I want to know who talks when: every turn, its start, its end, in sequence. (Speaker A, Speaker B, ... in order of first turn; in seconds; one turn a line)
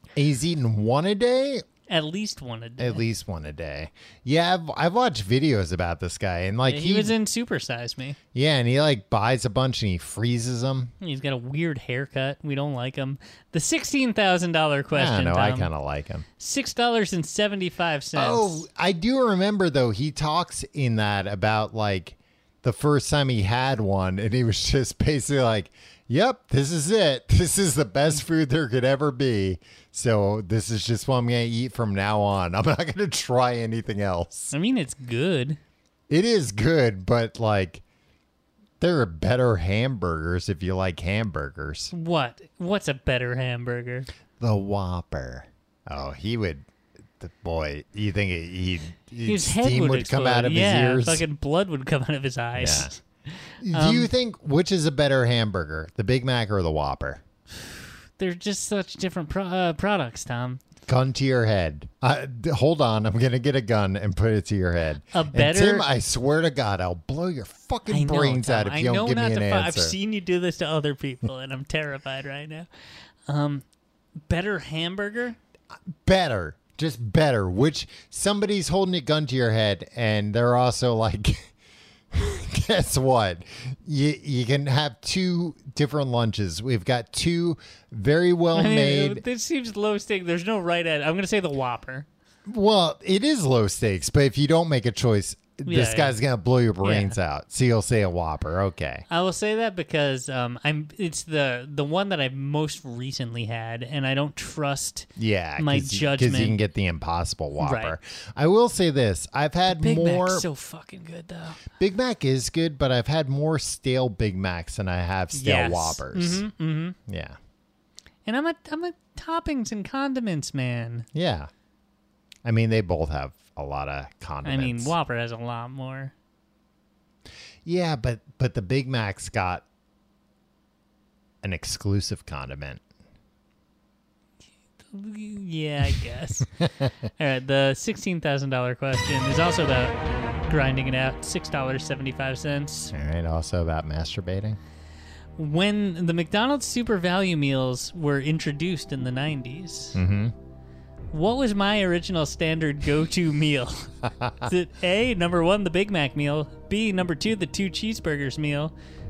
Speaker A: 0.1-1.6
Speaker B: 1.9-3.0
Speaker A: 2.8-7.1
Speaker B: 6.6-8.2
Speaker A: 8.3-10.9
Speaker B: 11.0-15.7
Speaker A: 14.9-16.2
Speaker B: 16.4-18.6
Speaker A: 18.1-34.5
Speaker B: 34.5-35.6
Speaker A: 36.1-37.8
Speaker A: 38.8-41.9
Speaker B: 41.9-44.1
Speaker A: 44.4-46.7
Speaker A: 47.2-51.2
Speaker B: 49.2-54.1
Speaker A: 52.6-52.9
Speaker A: 53.6-57.2
Speaker B: 57.5-60.6
Speaker A: 60.9-70.0
Speaker B: 65.0-65.9
Speaker B: 67.9-72.7
Speaker B: 73.2-73.6
Speaker B: 74.2-75.4
Speaker A: 76.0-81.5
Speaker A: 82.1-89.2
Speaker B: 88.5-92.1
Speaker A: 92.5-99.1
Speaker B: 95.7-96.2
Speaker B: 96.8-97.2
Speaker B: 99.1-106.6
Speaker A: 105.2-110.5
Speaker B: 107.6-108.0
Speaker B: 109.7-111.6
Speaker A: 111.7-116.4
Speaker B: 115.3-117.0
Speaker A: 117.1-117.4
Speaker B: 118.2-121.1
Speaker A: 121.1-121.5
Speaker A: 122.4-124.9
Speaker B: 124.4-126.1
Speaker A: 127.6-129.6
Speaker A: 131.4-132.8
Speaker B: 134.8-136.5
Speaker A: 136.6-136.9
Speaker B: 137.2-142.9
Speaker A: 142.9-144.6
Speaker B: 145.3-150.0
Speaker A: 149.9-150.3
Speaker B: 151.1-158.7
Speaker A: 154.2-154.5